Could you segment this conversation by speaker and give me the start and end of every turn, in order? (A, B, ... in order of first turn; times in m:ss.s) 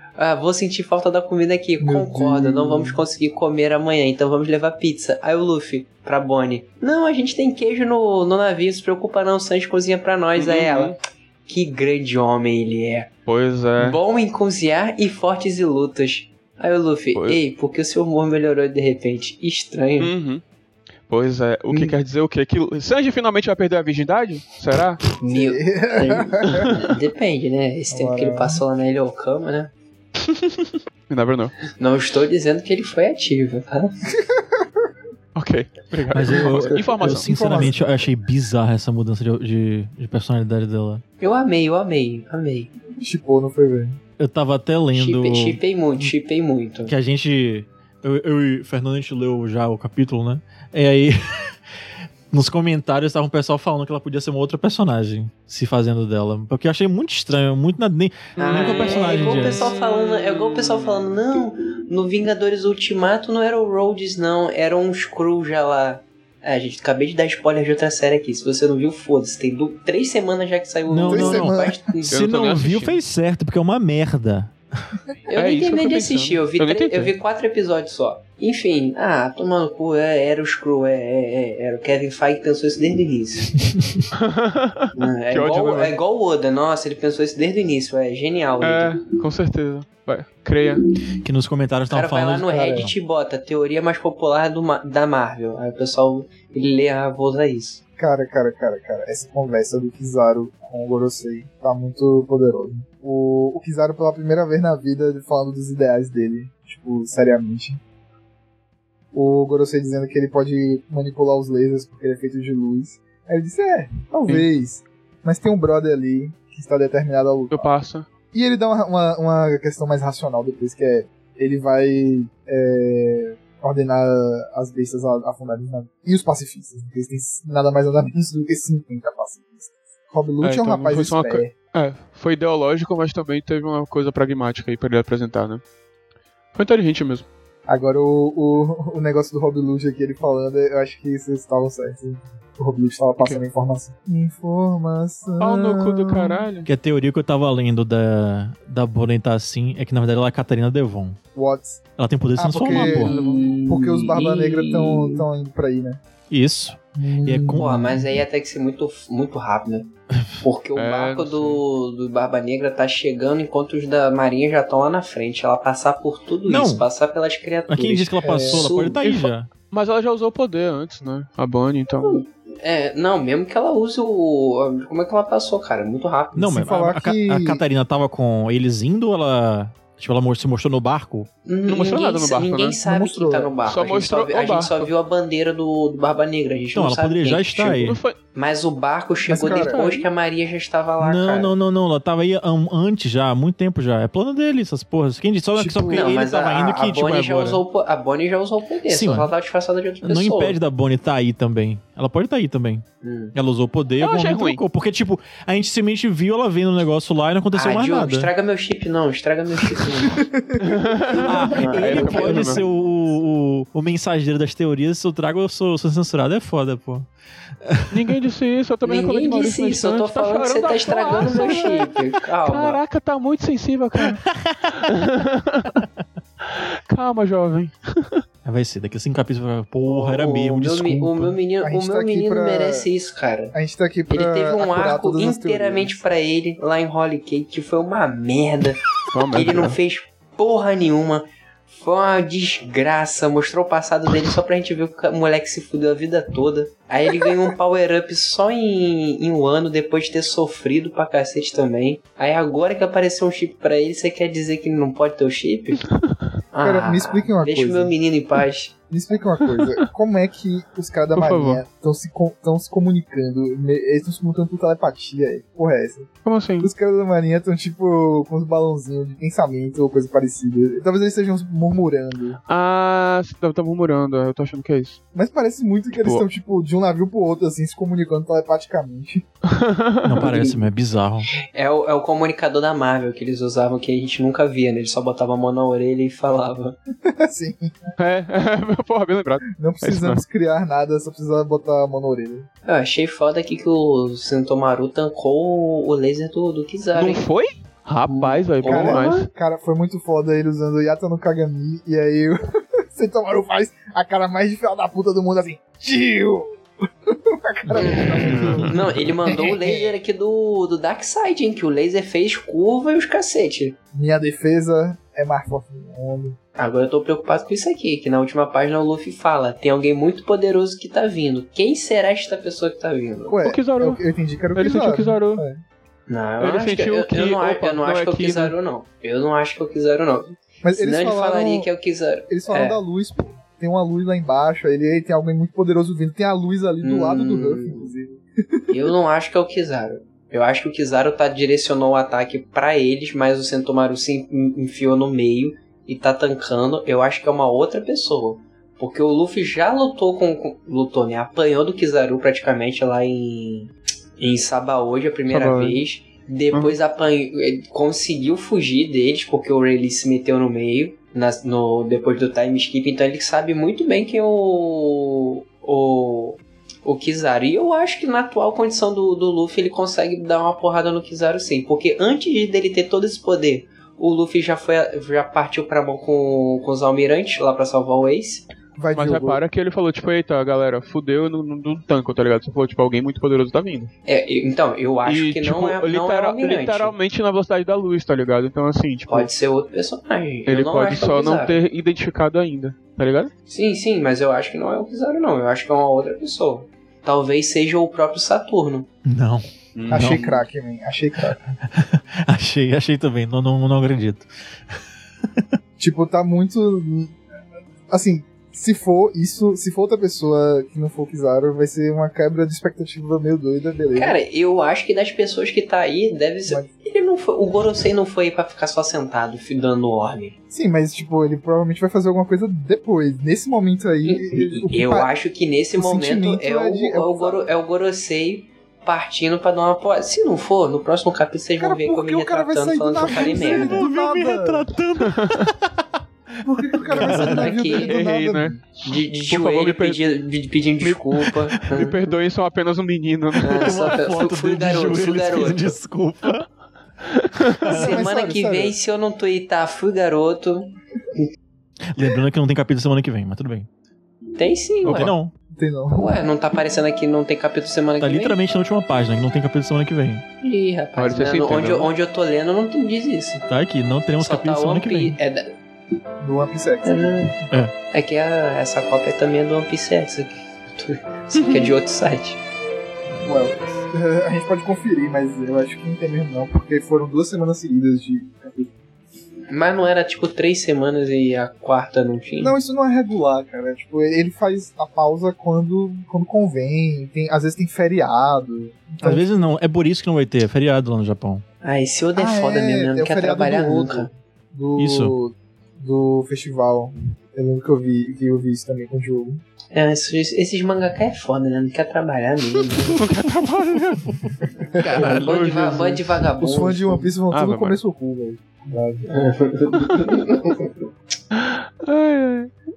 0:00.2-0:11.0 A
0:01.8-0:03.0 B
0:10.4-0:11.0 C
0:11.5-0:13.1 A
0:13.3-0:14.0 C
0:13.8-0:20.1 A
0:20.0-0:20.4 C
0:21.1-0:25.0 C
0:25.2-0:29.7 A
0:25.3-0:26.9 B
0:27.9-0:28.6 B
0:30.3-0:31.6 C
0:31.8-0:33.9 A
0:34.3-0:34.6 B
0:35.4-0:37.7 C
0:36.1-0:41.0 D
0:36.5-0:38.2 B
0:41.2-0:42.7 A
0:43.0-0:44.0 B
0:44.2-0:46.1 D
0:44.9-0:46.9 A
0:46.9-0:51.6 D
0:52.3-0:59.7 D
0:58.4-1:12.2 A
0:58.4-1:00.9 C
1:10.9-1:15.0 D
1:11.1-1:11.8 B
1:12.1-1:13.0 C
1:15.3-1:23.5 A
1:15.4-1:17.1 C
1:24.1-1:26.0 C
1:24.9-1:28.9 A
1:28.6-1:30.8 C
1:31.2-1:33.0 D
1:31.9-1:37.8 A
1:38.0-1:47.8 B
1:49.1-1:57.7 B
1:57.5-1:58.1 C
1:58.3-2:11.5 B
2:10.4-2:15.6 C
2:16.5-2:17.3 C
2:17.7-2:26.4 B
2:23.2-2:23.4 C
2:25.4-2:26.7 C
2:26.7-2:31.2 D
2:31.4-2:31.8 B
2:32.0-2:33.1 D
2:32.4-2:36.0 B
2:32.7-2:33.6 C
2:33.0-2:35.3 A
2:36.3-2:37.7 D
2:37.0-2:38.2 B
2:37.6-2:49.0 A
2:40.8-2:41.6 C
2:46.5-2:46.9 D
2:47.7-2:49.5 D
2:48.2-2:48.7 B
2:49.0-2:52.2 C
2:52.0-2:56.6 A
2:56.4-3:01.3 D
2:56.5-2:57.6 B
3:01.5-3:11.5 A
3:01.6-3:02.8 C
3:02.8-3:03.5 B
3:03.6-3:04.9 C
3:06.7-3:08.0 D
3:07.7-3:08.2 C
3:09.3-3:10.0 B
3:09.4-3:10.0 C
3:11.0-3:17.6 D
3:15.6-3:16.1 B
3:15.9-3:20.6 A
3:18.9-3:19.3 D
3:20.0-3:28.3 D
3:23.0-3:23.4 A
3:24.0-3:24.6 C
3:27.5-3:30.2 A
3:30.2-3:31.3 B
3:30.6-3:32.6 C
3:31.2-3:37.1 D
3:31.5-3:32.6 A
3:37.6-3:38.2 D
3:37.9-3:44.2 C
3:38.8-3:42.8 A
3:44.4-3:44.8 D
3:44.8-3:45.8 C
3:46.4-3:48.2 C
3:48.4-3:51.4 D
3:49.8-3:53.6 A
3:51.6-3:52.9 B
3:53.5-3:56.0 B
3:54.1-3:58.8 A
3:59.1-3:59.8 C
3:59.3-4:15.8 A
4:16.5-4:18.7 A
4:16.6-4:18.0 B
4:18.9-4:26.1 B
4:21.1-4:21.6 C
4:26.2-4:26.7 C
4:26.6-4:32.4 B
4:32.5-4:35.0 C
4:35.1-4:39.3 B
4:36.0-4:36.3 C
4:39.5-4:40.3 C
4:40.0-4:41.3 D
4:40.2-4:40.6 A
4:41.4-4:46.8 A
4:47.1-4:47.9 B
4:48.0-4:50.2 C
4:49.6-4:52.5 B
4:52.7-4:57.3 A
4:57.0-4:59.3 C
4:58.1-4:59.3 A
4:58.6-5:02.4 B
5:02.9-5:09.9 B
5:07.8-5:13.8 A
5:08.3-5:08.7 C
5:08.4-5:08.7 D
5:13.9-5:16.4 B
5:16.6-5:23.4 A
5:23.3-5:25.6 B
5:23.4-5:24.0 C
5:24.6-5:25.4 C
5:26.1-5:32.8 A
5:26.4-5:28.6 C
5:30.6-5:31.7 B
5:32.3-5:38.8 B
5:36.8-5:37.9 A
5:38.7-6:18.4 A
5:55.3-5:55.8 C
6:18.8-6:19.4 B
6:18.9-6:23.9 C
6:24.1-6:27.0 A
6:25.1-6:29.3 C
6:29.1-6:31.6 A
6:30.5-6:33.3 C
6:33.5-6:38.9 A
6:39.0-6:40.4 D
6:39.8-6:40.2 C
6:39.9-6:41.6 B
6:41.7-6:45.5 D
6:45.8-6:47.2 B
6:47.9-6:54.2 B
6:54.0-7:00.4 A
7:00.5-7:05.1 B
7:04.1-7:13.9 A
7:05.8-7:07.5 B
7:11.6-7:14.7 B
7:13.0-7:15.9 D
7:16.4-7:18.6 B
7:16.9-7:17.5 D
7:16.9-7:18.0 A
7:17.6-7:18.6 C
7:18.8-7:22.0 A
7:19.3-7:20.0 C
7:20.8-7:23.8 C
7:23.4-7:25.8 A
7:23.4-7:26.4 D
7:27.6-7:28.0 D
7:27.7-7:28.7 B
7:27.7-7:31.2 A
7:31.9-7:33.7 D
7:34.4-7:35.1 A
7:34.8-7:35.3 D
7:35.6-7:36.2 B
7:35.9-7:38.4 A
7:38.0-7:40.2 D
7:40.4-7:43.4 A
7:41.0-7:41.9 C
7:43.5-7:45.2 D
7:44.2-7:45.5 A
7:46.2-7:47.4 B
7:46.8-7:47.3 A
7:47.9-7:52.4 A
7:53.2-7:58.7 B
7:59.5-8:02.6 A
8:02.4-8:09.3 B
8:09.0-8:11.4 D
8:11.6-8:14.1 A
8:12.2-8:19.4 B
8:14.8-8:15.2 D
8:19.7-8:23.0 A
8:22.9-8:26.0 C
8:24.0-8:24.3 D
8:24.6-8:25.2 B
8:24.9-8:27.1 A
8:26.4-8:29.3 B
8:27.3-8:27.8 C
8:29.1-8:30.6 A
8:31.4-8:32.5 C